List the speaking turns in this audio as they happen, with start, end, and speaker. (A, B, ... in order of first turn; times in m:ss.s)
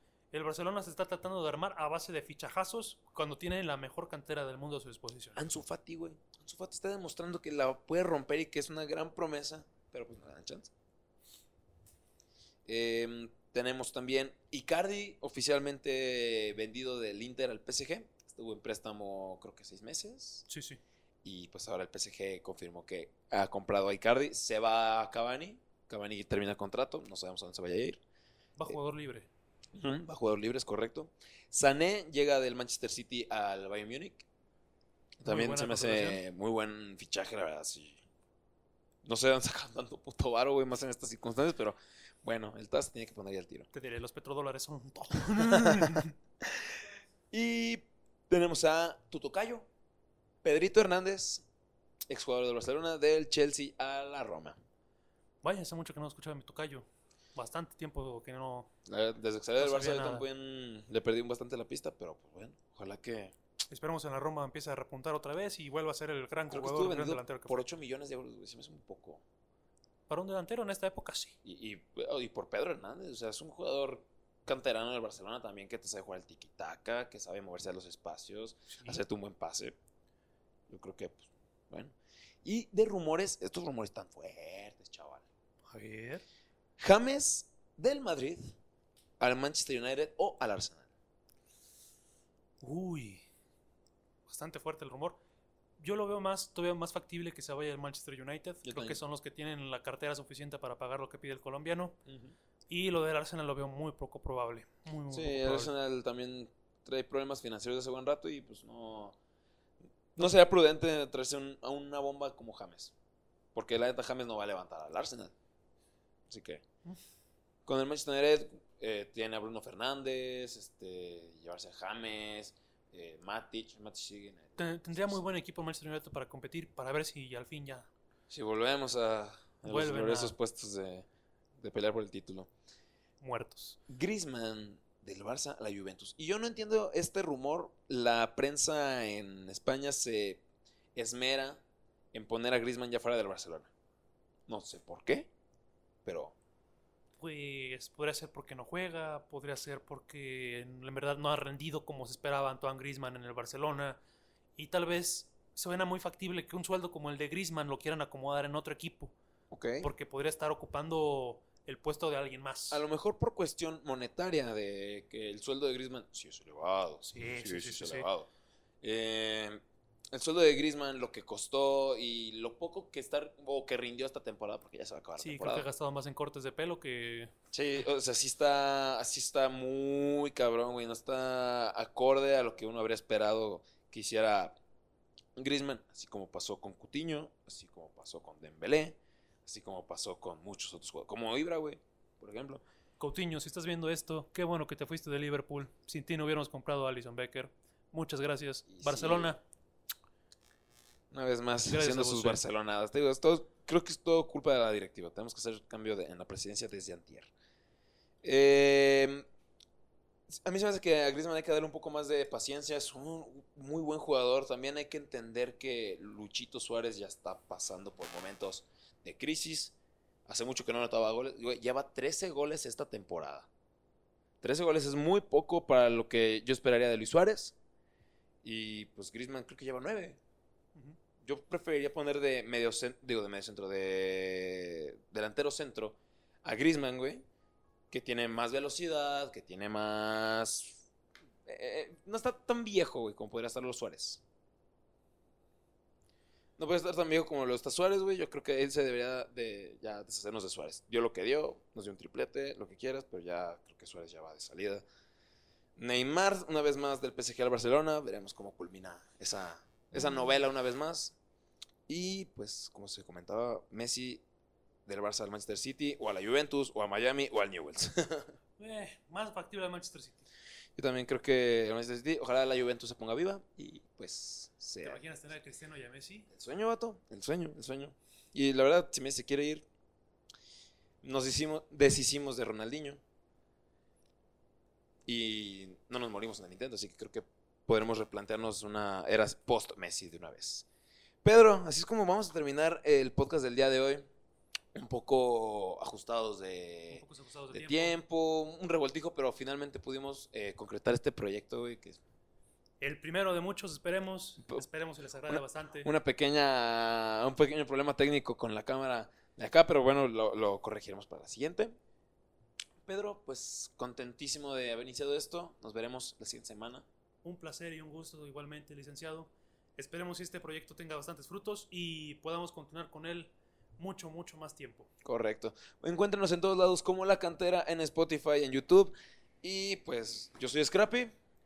0:00.3-0:05.4 A
0:05.4-0:10.7 B
0:12.6-0:20.5 B
0:20.5-0:20.8 A
0:21.2-0:28.0 B
0:28.6-0:29.3 A
0:29.7-0:34.2 B
0:35.2-0:38.0 B
0:35.2-0:36.2 A
0:39.0-0:43.7 B
0:43.7-0:46.1 A
0:45.4-0:46.8 B
0:47.3-0:49.7 B
0:50.4-0:51.4 B
0:52.1-0:54.6 B
0:55.4-0:58.7 A
0:58.8-1:03.3 B
0:59.6-1:00.2 A
1:03.7-1:07.6 A
1:06.5-1:09.2 B
1:10.1-1:11.3 A
1:11.4-1:19.7 B
1:18.7-1:19.0 A
1:20.7-1:25.2 B
1:25.7-1:26.2 A
1:26.8-1:28.6 B
1:29.2-1:30.8 B
1:32.6-1:33.2 A
1:34.3-1:35.2 A
1:35.8-1:42.0 A
1:38.6-1:39.0 B
1:42.1-1:42.3 B
1:42.7-1:45.7 A
1:45.1-1:49.2 B
1:50.1-1:52.9 B
1:53.5-1:55.3 B
1:56.3-1:56.6 B
1:57.6-2:05.2 B
2:04.6-2:07.9 A
2:08.3-2:11.0 B
2:09.6-2:10.3 A
2:11.6-2:12.5 B
2:13.2-2:13.8 A
2:13.9-2:20.4 B
2:20.9-2:21.6 B
2:22.1-2:23.7 B
2:24.5-2:25.3 B
2:26.0-2:26.3 B
2:27.2-2:34.0 A
2:34.6-2:39.1 A
2:39.5-2:39.9 B
2:39.8-2:42.8 A
2:42.7-2:48.3 B
2:47.0-2:48.1 A
2:48.8-2:49.6 B
2:50.1-2:55.7 B
2:55.2-2:57.3 A
2:57.5-3:04.6 B
3:05.4-3:12.6 B
3:13.0-3:19.4 A
3:18.7-3:19.3 B
3:21.1-3:27.3 B
3:21.7-3:22.4 A
3:28.2-3:29.2 B
3:30.3-3:39.7 B
3:40.2-3:43.5 B
3:44.4-3:47.5 B
3:48.4-3:50.2 B
3:51.2-3:57.2 B
3:57.9-4:00.8 B
4:01.4-4:04.2 B
4:06.6-4:14.8 B
4:15.8-4:21.2 B
4:21.9-4:24.2 B
4:24.8-4:28.3 B
4:28.6-4:30.2 A
4:30.8-4:35.0 B
4:34.8-4:36.3 A
4:36.3-4:39.6 B
4:41.0-4:43.0 B
4:45.0-4:50.6 B
4:51.2-4:54.1 B
4:54.7-5:02.0 B
4:56.9-4:58.0 A
5:02.8-5:05.9 A
5:05.3-5:11.8 B
5:12.8-5:16.8 B
5:17.2-5:24.9 A
5:25.0-5:31.1 B